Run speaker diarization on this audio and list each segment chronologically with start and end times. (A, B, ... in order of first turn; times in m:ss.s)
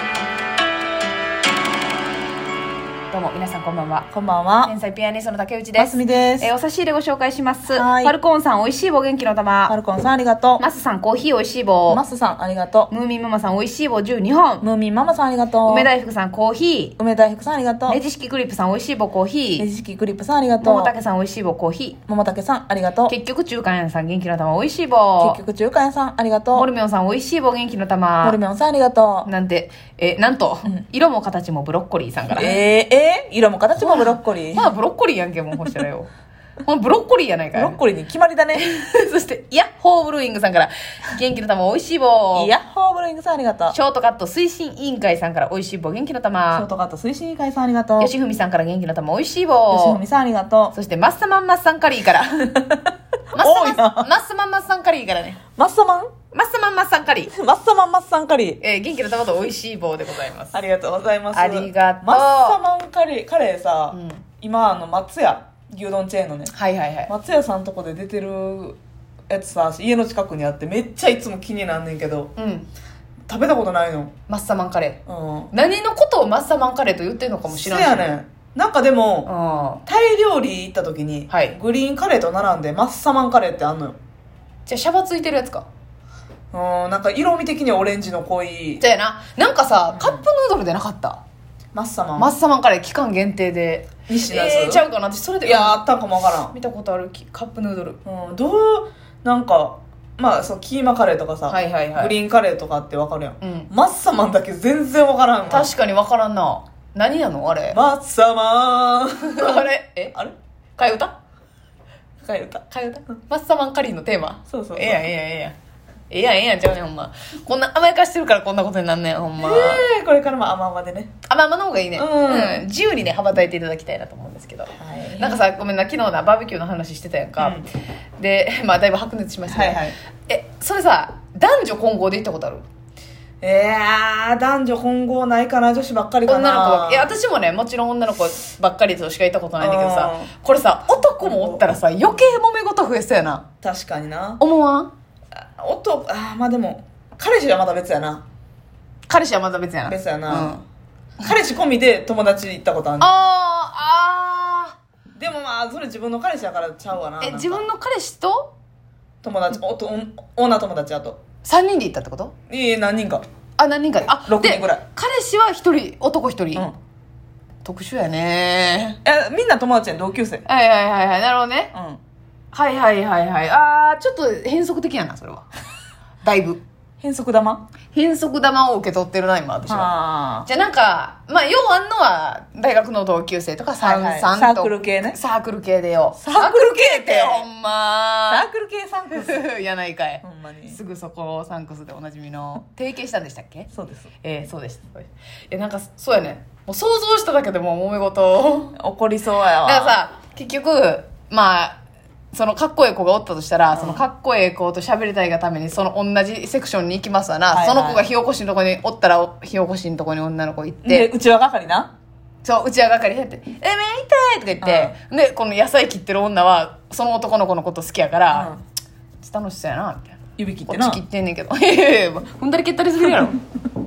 0:03.1-0:04.1 A
0:04.1-0:04.7 B
0:04.6-0:09.7 A
0:05.8-0:06.5 B
0:07.7-0:08.2 B
0:09.7-0:10.6 B
0:10.6-0:12.0 A
0:11.9-0:12.9 B
0:12.9-0:14.6 A
0:14.6-0:15.9 B
0:15.6-0:17.0 A
0:17.0-0:18.0 B
0:17.9-0:19.7 A
0:19.6-0:20.9 B
0:20.6-0:22.0 A
0:22.1-0:23.2 B
0:23.1-0:25.4 A
0:25.2-0:26.7 B
0:26.6-0:28.4 A
0:28.2-0:29.3 B
0:29.2-0:32.6 A
0:32.3-0:34.7 B
0:33.8-0:36.1 A
0:36.6-0:37.8 A
0:37.6-0:38.7 B
0:38.5-0:42.5 A
0:42.4-0:43.8 B
0:43.7-0:46.7 A
0:46.5-0:48.1 B
0:48.0-0:50.0 A
0:49.7-0:50.8 B
0:50.7-0:52.6 A
0:52.6-0:54.1 B
0:53.3-0:55.4 A
0:55.6-0:56.1 B
0:56.3-0:57.3 A
0:57.3-0:58.6 B
0:58.6-1:00.6 A
1:00.5-1:06.5 B
1:01.3-1:02.6 A
1:03.9-1:04.2 A
1:06.5-1:07.1 A
1:07.1-1:12.3 B
1:12.4-1:12.7 A
1:13.3-1:14.1 B
1:14.3-1:15.0 A
1:15.1-1:15.5 B
1:15.5-1:18.1 A
1:17.5-1:19.3 B
1:19.3-1:19.8 A
1:19.9-1:24.0 B
1:21.3-1:21.6 A
1:24.7-1:25.7 A
1:26.5-1:28.8 B
1:28.8-1:31.2 A
1:31.7-1:32.3 B
1:32.2-1:35.8 A
1:34.1-1:34.9 B
1:35.4-1:36.6 B
1:36.5-1:38.0 A
1:38.0-1:45.7 B
1:41.5-1:42.1 A
1:43.4-1:43.7 A
1:45.5-1:47.8 A
1:47.7-1:50.4 B
1:49.2-1:50.2 A
1:50.8-1:51.2 A
1:52.2-1:52.6 B
1:52.7-1:55.6 A
1:54.5-1:55.0 B
1:56.1-1:59.9 A
1:59.4-2:01.1 B
2:01.2-2:07.6 A
2:02.0-2:02.6 B
2:04.8-2:05.4 B
2:07.4-2:07.6 B
2:08.2-2:12.6 A
2:09.5-2:10.0 B
2:13.4-2:17.1 B
2:16.3-2:23.5 A
2:19.6-2:20.3 B
2:21.2-2:21.6 B
2:23.6-2:24.4 B
2:24.4-2:24.9 A
2:25.4-2:28.2 B
2:29.1-2:30.6 A
2:29.9-2:30.6 B
2:31.2-2:33.3 B
2:33.0-2:34.8 A
2:35.2-2:37.6 B
2:37.2-2:38.5 A
2:39.2-2:41.2 B
2:41.4-2:42.3 A
2:42.5-2:43.2 B
2:43.6-2:46.7 A
2:44.3-2:44.8 B
2:47.6-2:49.0 A
2:49.0-2:50.4 B
2:50.5-2:51.7 A
2:51.7-2:52.0 B
2:52.5-2:55.5 A
2:56.2-2:56.6 A
2:57.0-2:57.7 B
2:57.9-2:59.9 A
2:59.7-3:00.5 B
3:00.4-3:08.5 A
3:03.8-3:05.2 B
3:06.2-3:07.5 B
3:08.3-3:09.4 B
3:09.1-3:13.7 A
3:10.2-3:10.8 B
3:13.7-3:14.1 B
3:14.2-3:18.8 A
3:18.8-3:20.0 B
3:19.6-3:21.8 A
3:22.3-3:31.1 A
3:23.7-3:24.0 B
3:27.5-3:28.0 B
3:30.8-3:31.9 B
3:32.4-3:38.5 A
3:34.6-3:35.0 B
3:38.3-3:38.6 B
3:39.2-3:40.2 A
3:40.4-3:41.0 B
3:40.7-3:43.5 A